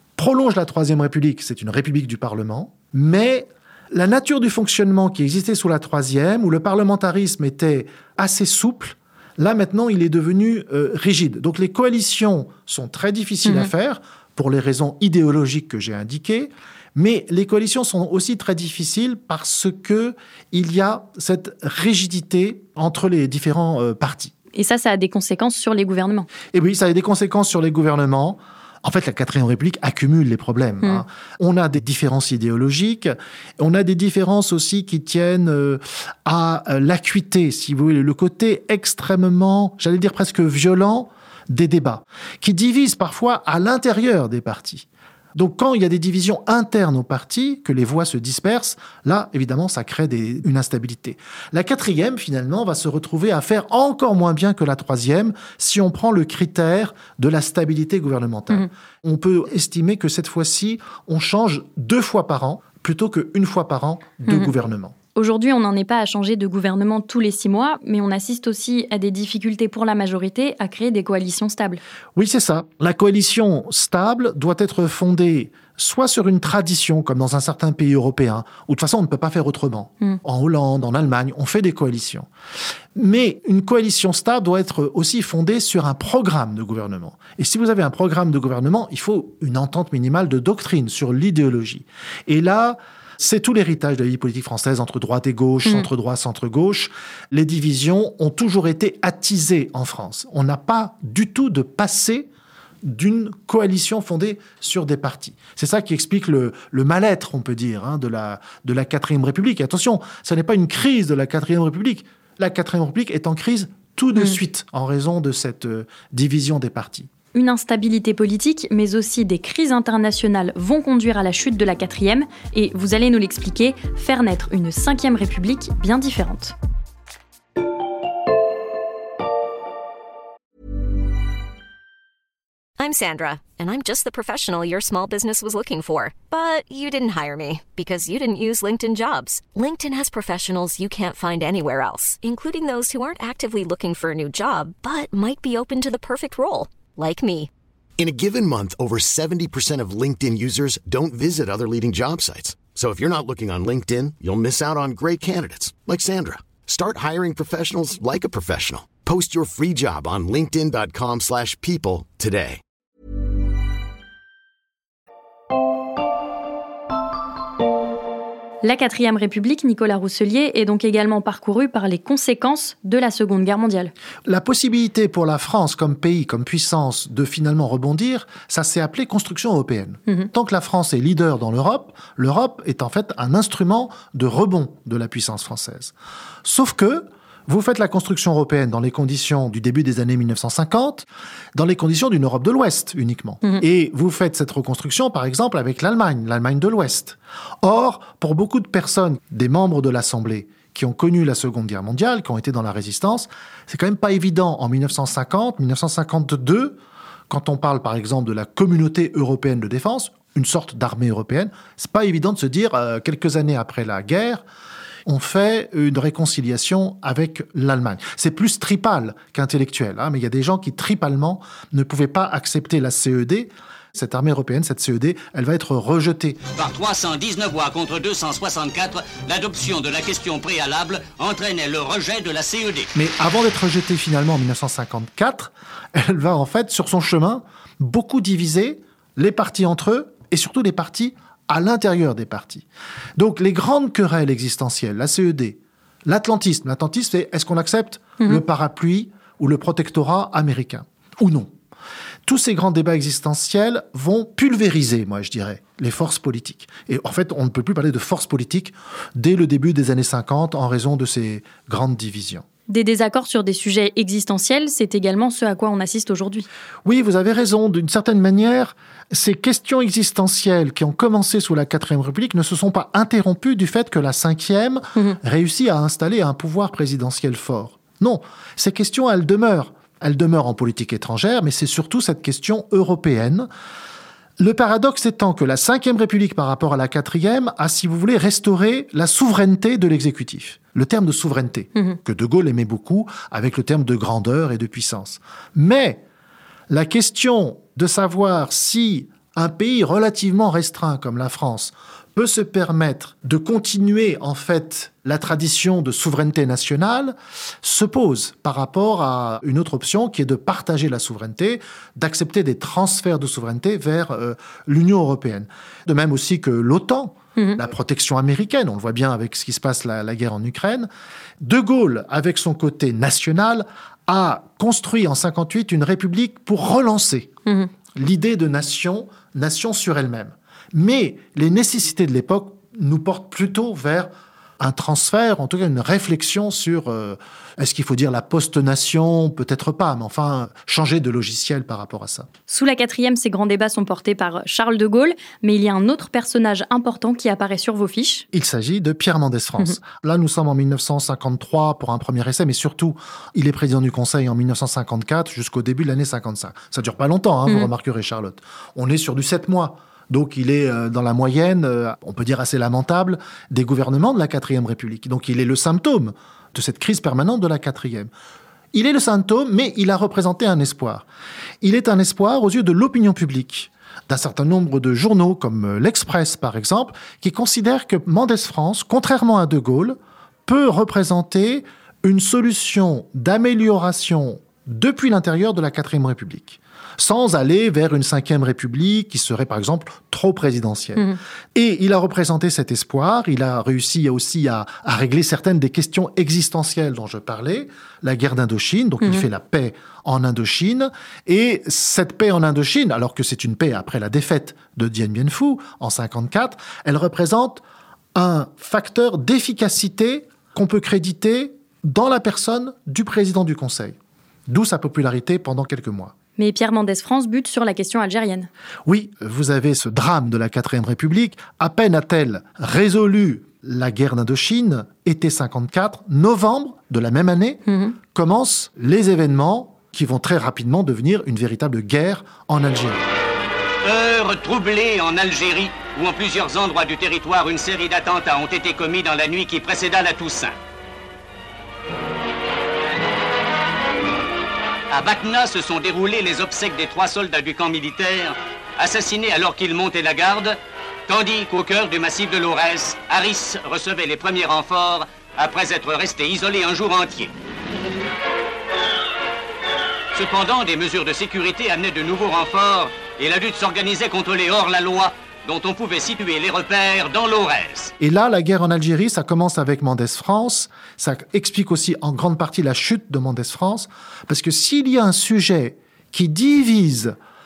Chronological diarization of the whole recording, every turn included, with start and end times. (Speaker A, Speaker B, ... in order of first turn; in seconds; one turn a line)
Speaker A: 0.2-24.3
Speaker B: 24.6-26.3
Speaker A: 26.5-65.0
Speaker B: 65.2-71.8
Speaker A: 72.2-82.3
Speaker A: 83.0-102.3
Speaker A: 102.8-117.1
Speaker B: 117.3-126.5
Speaker C: 132.8-147.5
Speaker D: 148.0-162.6
Speaker B: 168.6-173.9
Speaker A: 174.2-185.9
Speaker A: 186.4-206.8
Speaker A: 207.3-214.4
Speaker A: 215.1-226.4
Speaker E: 226.6-232.9
Speaker A: 232.9-251.5
Speaker A: 252.3-262.4
Speaker B: 262.7-266.5
Speaker A: 266.9-283.5
Speaker A: 284.4-296.0
Speaker A: 296.7-320.9
Speaker A: 321.4-327.3
Speaker A: 327.9-342.3
Speaker B: 342.5-348.3
Speaker A: 348.3-368.1
Speaker A: 368.7-371.1
Speaker A: 371.6-407.6
Speaker A: 408.1-414.0
Speaker A: 414.5-416.1
Speaker B: 416.4-418.5
Speaker A: 418.9-433.0
Speaker B: 427.7-427.9
Speaker E: 433.8-440.5
Speaker E: 444.9-450.6
Speaker E: 451.1-457.3
Speaker E: 460.1-467.9
Speaker A: 468.0-477.2